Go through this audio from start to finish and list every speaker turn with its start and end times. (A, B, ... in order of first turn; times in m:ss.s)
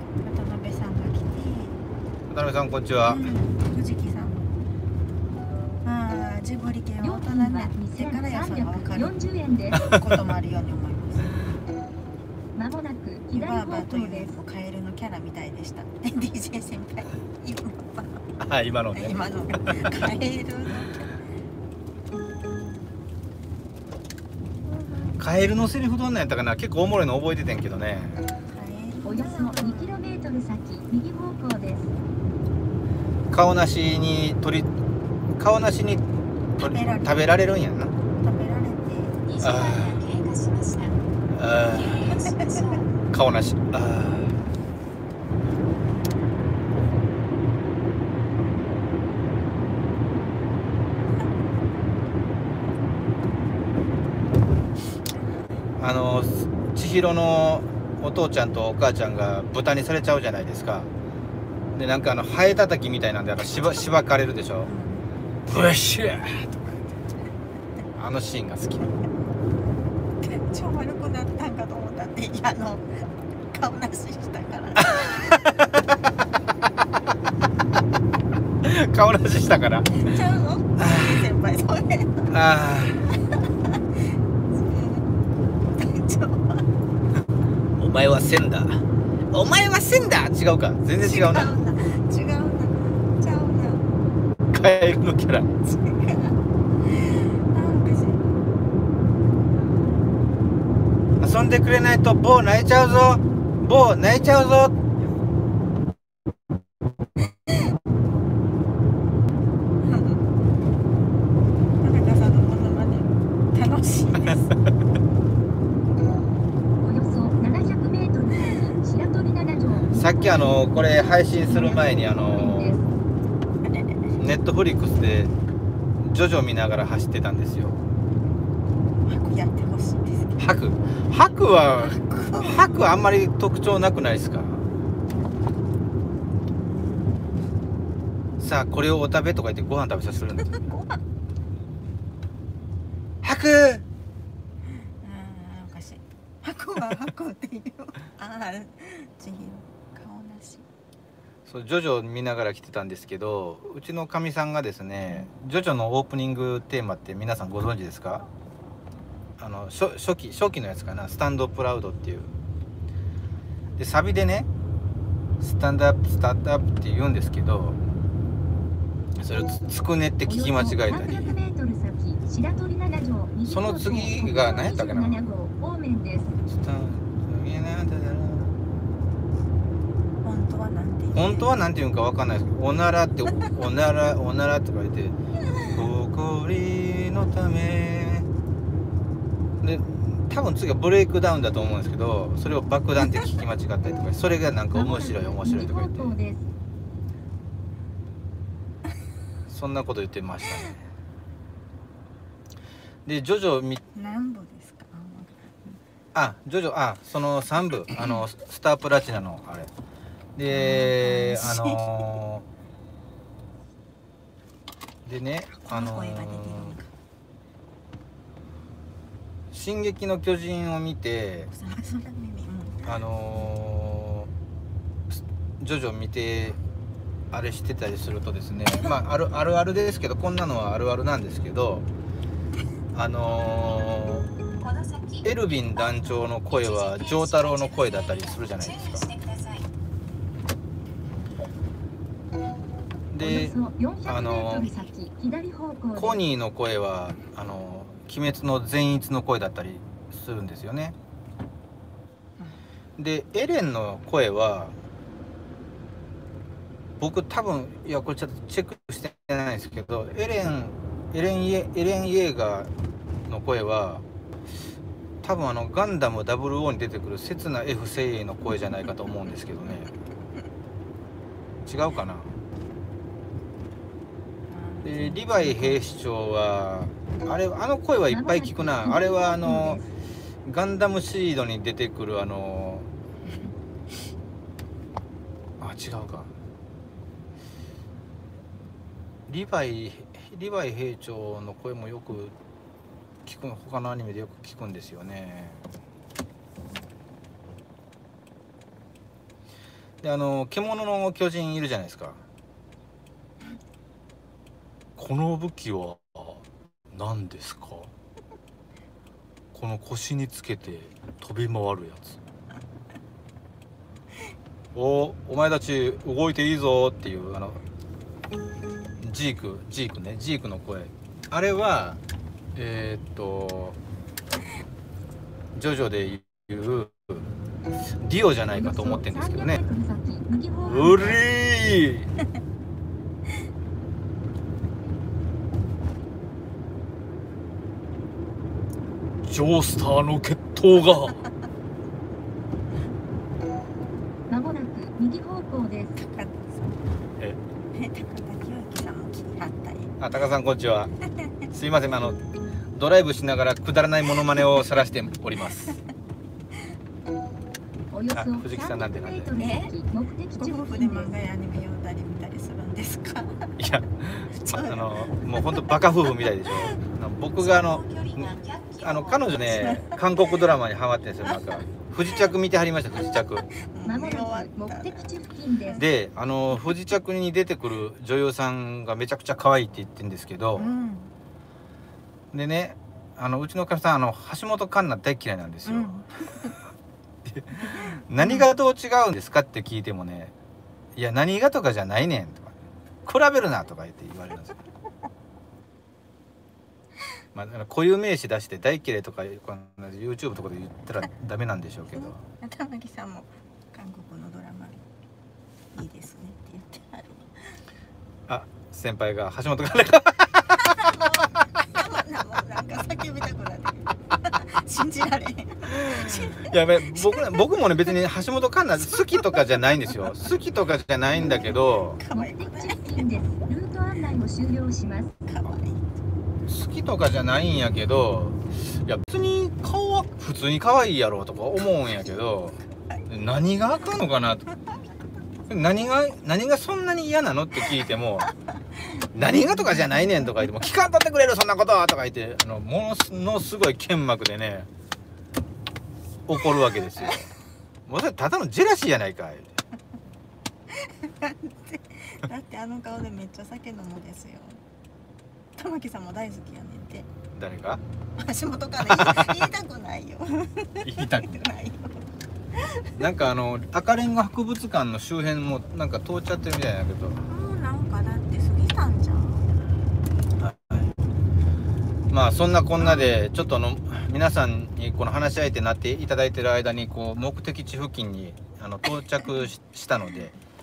0:00.2-0:01.8 A
0:02.3-0:03.2 B
0:03.0-0:04.5 A
0:05.8-0:09.1 A
0:07.0-0:09.8 C
0:09.7-0:10.1 B
0:09.8-0:11.4 A
0:12.5-0:14.4 C
0:13.3-0:18.3 A
0:18.4-0:19.9 B
0:18.9-0:21.2 A
0:24.6-0:25.2 A
0:25.2-0:28.3 B
0:28.5-0:29.9 A
0:29.0-0:31.9 C
0:33.3-0:34.7 B
0:35.4-0:36.0 B
0:36.6-0:37.9 B
0:36.6-0:37.3 A
0:38.1-0:39.2 A
0:39.3-0:41.0 D
0:39.4-0:40.0 B
0:41.3-0:42.1 B
0:41.6-0:43.0 D
0:43.1-0:44.4 B
0:55.8-1:00.9 B
1:01.7-1:04.7 B
1:04.6-1:05.0 A
1:05.5-1:06.8 B
1:08.0-1:08.9 B
1:10.2-1:12.8 A
1:13.5-1:15.7 A
1:14.9-1:15.8 B
1:18.6-1:20.1 B
1:19.9-1:22.3 A
1:20.8-1:21.3 B
1:22.3-1:23.1 B
1:23.1-1:23.8 A
1:24.5-1:25.0 A
1:25.8-1:26.6 A
1:27.8-1:31.5 B
1:31.0-1:33.8 A
1:34.5-1:35.5 B
1:35.6-1:38.2 A
1:41.2-1:44.8 B
1:49.8-1:50.2 A
1:51.8-1:54.6 A
1:56.8-2:02.8 C
1:59.9-2:02.8 B
2:03.6-2:04.1 A
2:04.2-2:05.3 B
2:06.0-2:07.8 B
2:09.0-2:10.4 A
2:10.4-2:14.6 B
2:11.8-2:12.8 A
2:18.4-2:20.6 B
2:20.4-2:21.0 A
2:23.2-2:23.8 B
2:25.0-2:30.6 A
2:31.4-2:38.2 B
2:39.4-2:42.3 B
2:43.8-2:44.5 B
2:45.4-2:47.8 B
2:49.2-2:51.3 B
2:50.2-2:56.3 C
2:50.9-2:51.4 A
2:53.5-2:55.2 B
2:56.5-2:58.5 B
3:00.2-3:01.5 A
3:01.1-3:05.2 B
3:05.7-3:08.3 B
3:09.6-3:16.1 B
3:14.7-3:16.4 C
3:19.5-3:20.8 B
3:23.0-3:23.8 B
3:23.9-3:25.8 A
3:26.1-3:29.7 B
3:30.4-3:32.4 B
3:30.5-3:32.0 A
3:35.0-3:36.7 B
3:35.5-3:36.9 A
3:39.5-3:41.5 B
3:41.5-3:43.0 A
3:42.8-3:44.3 B
3:45.1-3:46.6 B
3:47.3-3:51.8 B
3:52.9-3:54.3 B
3:54.6-3:59.7 D
3:55.2-3:59.1 B
4:03.1-4:04.7 B
4:03.2-4:06.2 C
4:05.9-4:10.9 B
4:13.0-4:14.7 B
4:17.0-4:22.7 B
4:23.3-4:24.0 B
4:25.2-4:29.9 B
4:31.6-4:32.3 B
4:34.5-4:35.8 A
4:34.8-4:39.8 B
4:38.1-4:39.8 C
4:40.4-4:42.9 B
4:45.6-4:46.3 B
4:49.3-4:52.3 B
4:53.2-4:55.6 B
5:00.0-5:02.2 B
5:05.0-5:07.9 B
5:09.5-5:12.2 B
5:14.7-5:17.6 B
5:19.0-5:22.0 B
5:22.5-5:23.8 B
5:25.5-5:27.2 B
5:28.0-5:29.6 B
5:28.5-5:31.2 C
5:30.6-5:31.2 A
5:30.7-5:32.1 B
5:39.2-5:41.2 B
5:44.3-5:46.0 C
5:46.0-5:46.8 A
5:47.7-5:49.9 A
5:50.0-5:50.9 B
5:51.5-5:52.2 B
5:52.7-5:55.8 B
5:57.9-6:01.1 C
5:58.1-5:59.4 B
5:59.4-5:59.7 A
6:00.3-6:03.6 A
6:03.6-6:08.3 B
6:04.4-6:05.7 A
6:06.5-6:06.8 A
6:07.4-6:09.9 D
6:08.8-6:13.4 B
6:13.5-6:15.1 A
6:13.8-6:15.8 C
6:15.8-6:20.7 B
6:20.6-6:21.1 A
6:22.3-6:26.0 B
6:25.6-6:26.6 A
6:27.2-6:30.3 B
6:28.2-6:28.4 A
6:31.0-6:34.6 B
6:37.3-6:42.2 B
6:41.9-6:44.8 A
6:45.7-6:47.6 A
6:48.3-6:51.1 B
6:50.6-6:57.4 A
6:55.7-7:02.0 B
7:01.1-7:03.2 A
7:02.1-7:05.1 C
7:05.2-7:05.8 A
7:06.4-7:12.6 B
7:13.1-7:14.5 B
7:15.5-7:18.3 B
7:19.1-7:24.7 B
7:19.2-7:20.3 A
7:26.2-7:27.3 B
7:27.9-7:29.5 B
7:30.7-7:34.6 A
7:35.6-7:37.1 A
7:37.4-7:37.8 B
7:38.2-7:42.0 A
7:38.8-7:39.5 B
7:40.8-7:41.3 B
7:42.5-7:42.9 A
7:43.0-7:47.2 B
7:47.2-7:49.5 A
7:50.4-7:50.9 B
7:52.1-8:00.3 B
7:52.8-7:53.1 A